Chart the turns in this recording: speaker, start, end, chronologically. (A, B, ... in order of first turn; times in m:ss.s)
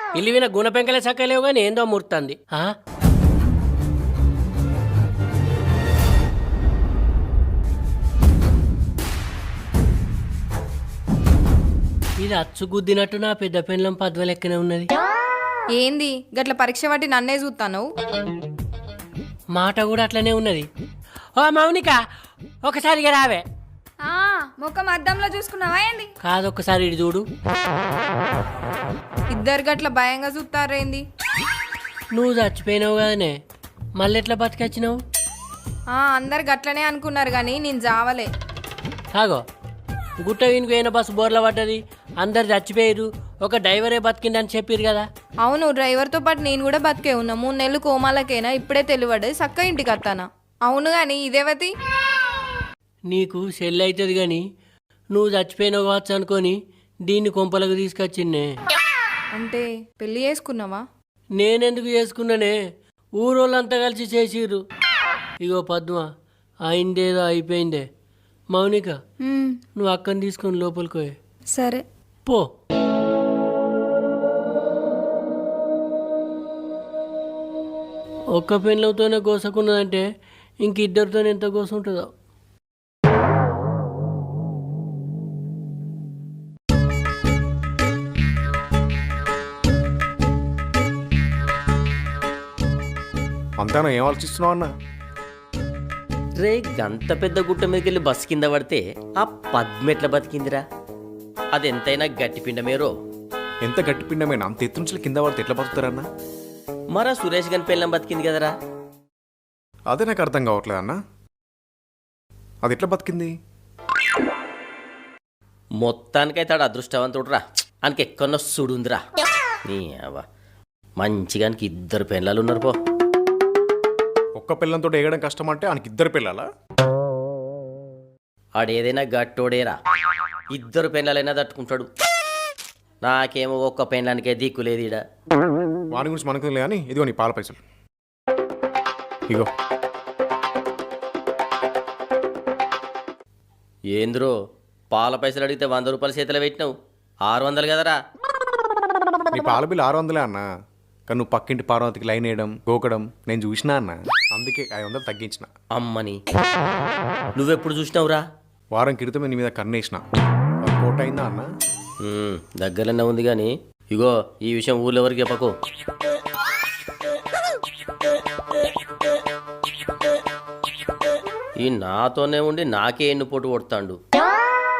0:00.2-0:02.8 A
0:12.2-0:14.9 A
0:15.8-0:17.9 B
0:19.5-0:20.7 A
0:21.4-0:22.0 A
0:22.6-0:23.4 A
0:24.0-0:26.1 C
0:26.2-0:27.2 A
0:29.3-0:31.0 B
0:32.1-0:33.4 A
0:34.0-0:35.0 A
0:35.9-0:38.3 B
0:39.1-0:39.4 A
0:40.2-0:45.0 A
0:45.4-0:51.7 B
0:53.1-0:54.4 A
0:55.1-0:56.6 A
0:57.1-0:58.5 A
0:59.4-1:00.8 B
1:01.4-1:02.6 A
1:03.2-1:04.6 A
1:05.4-1:06.1 A
1:06.7-1:07.9 A
1:08.5-1:09.0 A
1:09.2-1:09.6 C
1:09.8-1:11.2 A
1:11.6-1:11.8 C
1:18.4-1:20.1 A
1:20.6-1:22.1 A
1:33.6-1:34.7 D
1:36.4-1:40.6 E
1:41.5-1:42.9 E
1:43.6-1:46.1 D
1:46.9-1:48.6 E
1:49.9-1:51.0 D
1:52.6-1:53.3 D
1:55.8-1:59.0 E
1:59.6-2:00.2 E
2:01.0-2:02.8 E
2:04.4-2:06.5 D
2:08.6-2:09.8 E
2:10.5-2:11.9 E
2:13.0-2:15.0 E
2:15.9-2:17.6 D
2:23.9-2:24.4 E
2:24.9-2:26.7 E
2:27.3-2:28.0 E
2:29.3-2:30.4 D
2:31.1-2:35.5 D
2:35.7-2:36.2 E
2:37.4-2:38.2 E
2:38.7-2:40.0 D
2:40.6-2:41.5 D
2:42.0-2:45.5 E
2:51.6-2:54.0 E